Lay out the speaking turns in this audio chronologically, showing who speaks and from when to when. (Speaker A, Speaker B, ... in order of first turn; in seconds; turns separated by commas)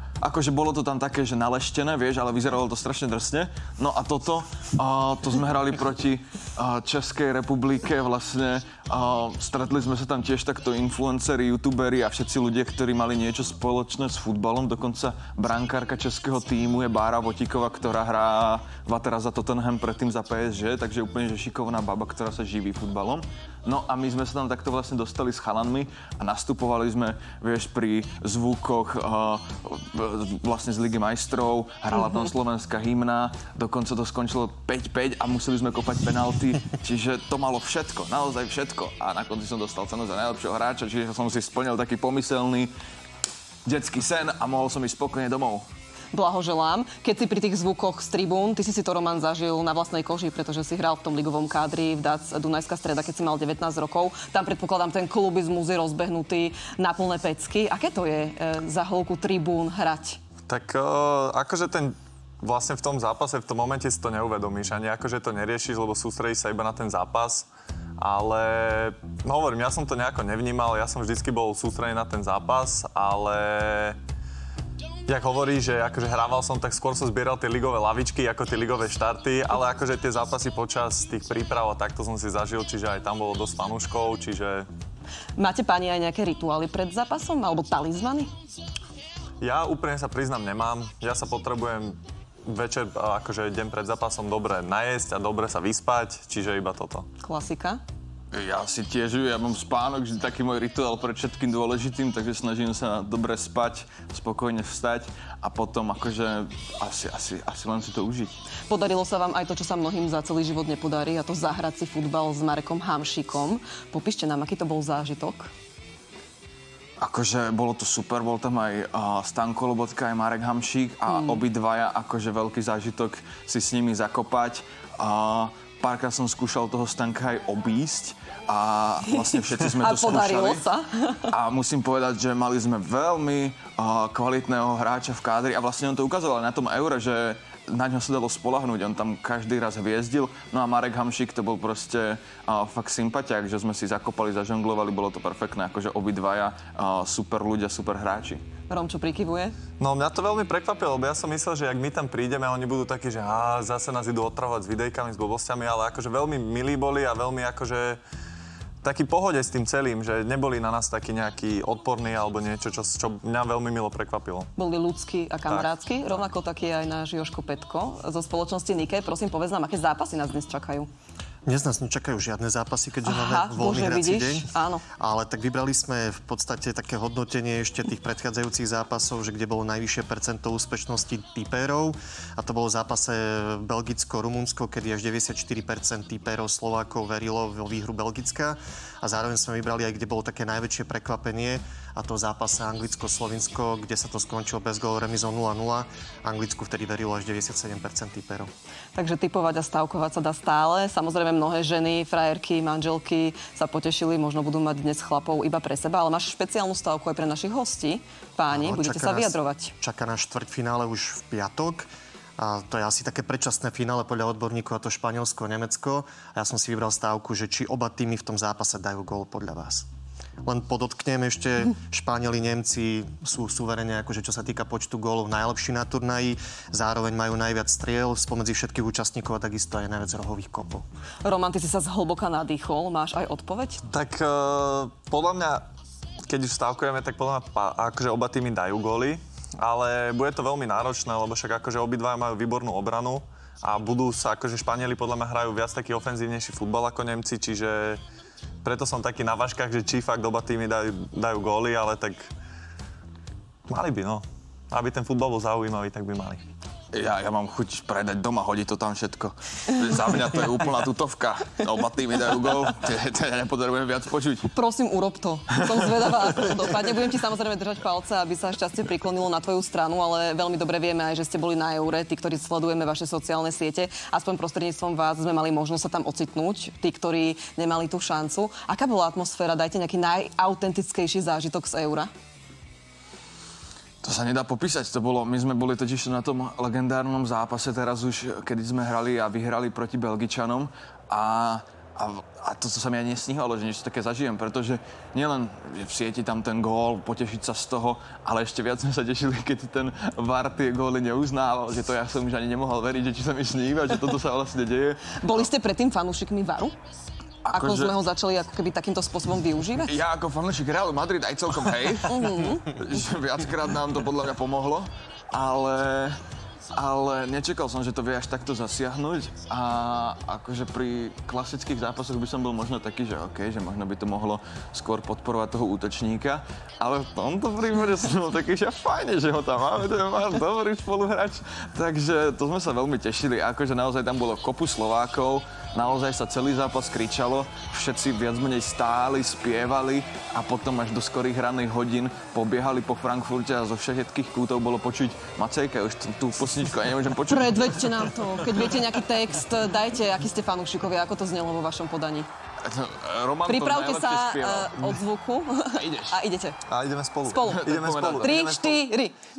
Speaker A: 0.2-42.7, Speaker A: 43.6-45.6, Speaker B: 46.1-60.2, Speaker C: 60.5-67.5, Speaker C: 68.0-74.0, Speaker C: 75.1-84.7, Speaker B: 85.4-88.3, Speaker C: 89.4-97.1, Speaker B: 97.2-97.8, Speaker A: 98.3-108.4, Speaker B: 108.7-115.5, Speaker A: 117.0-130.6, Speaker B: 121.1-121.4, Speaker B: 129.8-131.3, Speaker A: 131.3-148.4, Speaker B: 148.7-149.6, Speaker C: 149.8-158.0, Speaker C: 158.8-164.5, Speaker B: 164.6-170.9, Speaker D: 171.4-198.5, Speaker B: 173.1-174.8, Speaker B: 198.9-209.7, Speaker D: 208.5-219.8, Speaker D: 220.4-230.8, Speaker B: 231.2-233.8, Speaker C: 233.9-235.7, Speaker C: 236.2-248.0, Speaker C: 248.6-252.3, Speaker C: 253.7-256.4, Speaker A: 256.9-264.5, Speaker B: 264.5-282.1, Speaker A: 284.0-305.4, Speaker B: 305.2-306.7, Speaker A: 307.4-307.9, Speaker B: 307.5-309.9, Speaker A: 309.8-316.2, Speaker B: 312.1-312.7, Speaker A: 316.7-348.0, Speaker B: 347.3-352.3, Speaker A: 352.6-354.9, Speaker B: 353.5-356.6, Speaker A: 355.7-356.2, Speaker C: 356.7-358.8, Speaker B: 357.2-359.1, Speaker A: 357.4-358.6